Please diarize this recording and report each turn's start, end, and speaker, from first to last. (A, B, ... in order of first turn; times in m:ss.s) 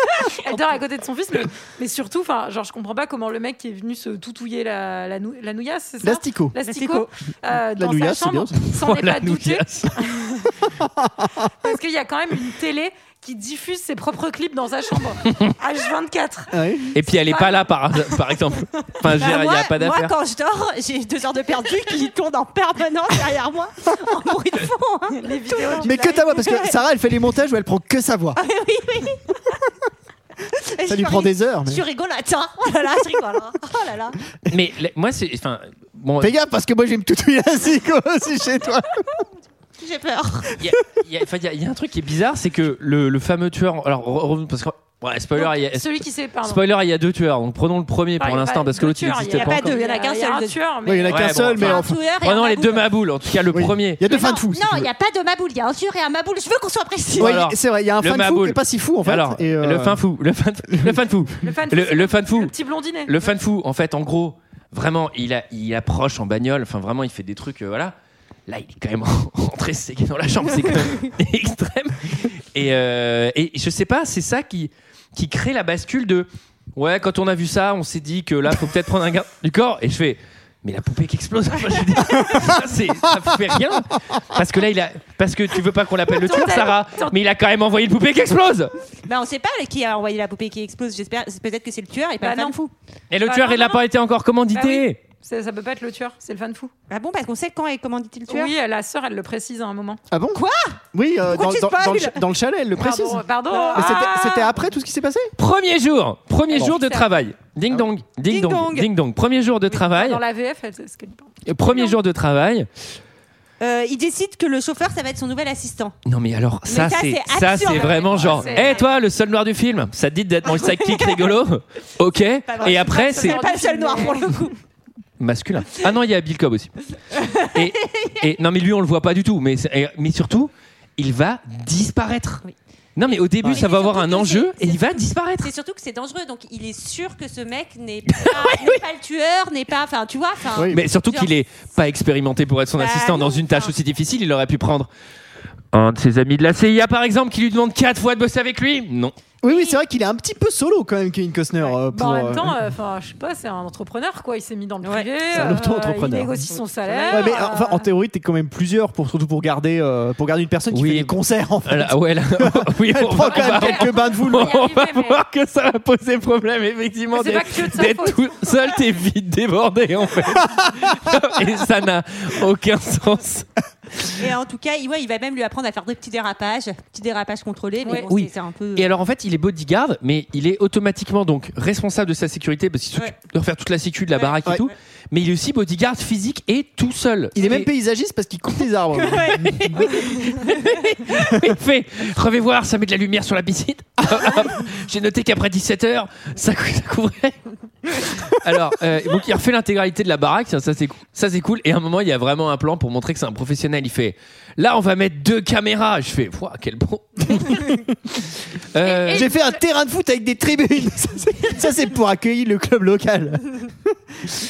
0:00.3-0:10.5 A
0:06.0-0:06.6 B
0:06.6-0:07.1 C
0:07.6-0:08.6 B
0:08.7-0:10.0 D
0:10.8-0:11.5 B
0:11.6-0:18.4 A
0:15.3-0:15.5 D
0:16.5-0:16.9 B
0:16.9-0:20.1 D
0:19.1-0:26.8 C
0:25.2-0:26.3 A
0:25.8-0:28.4 B
0:28.4-0:29.6 C
0:30.6-0:34.2 C
0:30.8-0:31.8 B
0:34.5-0:36.4 D
0:36.2-0:39.2 B
0:39.8-0:40.6 C
0:40.6-0:49.8 D
0:45.4-0:46.7 A
0:48.2-0:51.4 A
0:49.3-0:50.6 C
0:50.9-0:52.0 B
0:51.1-0:54.0 D
0:51.5-0:52.9 C
0:53.5-0:54.9 B
0:54.1-0:57.4 C
0:57.2-1:00.0 B
0:57.2-1:02.5 D
1:00.7-1:01.0 B
1:01.4-1:03.2 A
1:03.1-1:08.0 D
1:08.5-1:28.7 D
1:26.2-1:27.2 A
1:29.0-1:32.7 C
1:32.2-1:32.6 A
1:33.1-1:35.0 D
1:33.2-1:33.8 A
1:34.5-1:36.7 A
1:36.9-1:38.5 C
1:38.3-1:40.0 A
1:40.1-1:40.4 B
1:40.3-1:42.2 C
1:40.9-1:45.3 B
1:42.8-1:44.5 A
1:43.5-1:44.3 C
1:45.4-1:50.2 D
1:46.5-1:47.1 A
1:48.2-1:48.9 C
1:49.8-1:52.0 A
1:51.5-1:52.7 D
1:53.6-1:56.0 C
1:56.1-2:03.4 D
1:56.7-1:58.9 C
1:57.6-1:58.9 A
2:00.5-2:01.1 C
2:02.5-2:04.6 C
2:02.6-2:04.5 A
2:05.2-2:06.7 D
2:07.1-2:08.3 C
2:07.5-2:12.4 D
2:13.0-2:15.5 D
2:13.4-2:21.3 C
2:18.2-2:18.8 D
2:20.5-2:20.8 B
2:20.7-2:24.9 D
2:22.8-2:23.7 C
2:25.7-2:29.2 D
2:29.4-2:32.6 B
2:29.4-2:29.8 C
2:31.6-2:37.9 A
2:34.8-2:35.1 C
2:35.3-2:36.4 B
2:35.4-2:36.3 D
2:37.0-2:37.3 C
2:37.1-2:44.5 B
2:40.7-2:53.5 D
2:43.3-2:45.2 A
2:47.1-2:48.8 A
2:54.2-2:58.9 C
2:58.0-3:07.7 D
3:04.2-3:04.7 C
3:07.4-3:10.0 B
3:09.0-3:10.8 C
3:09.4-3:27.8 D
3:27.5-3:27.8 B
3:28.6-3:29.3 D
3:28.8-3:29.6 A
3:29.1-3:33.9 B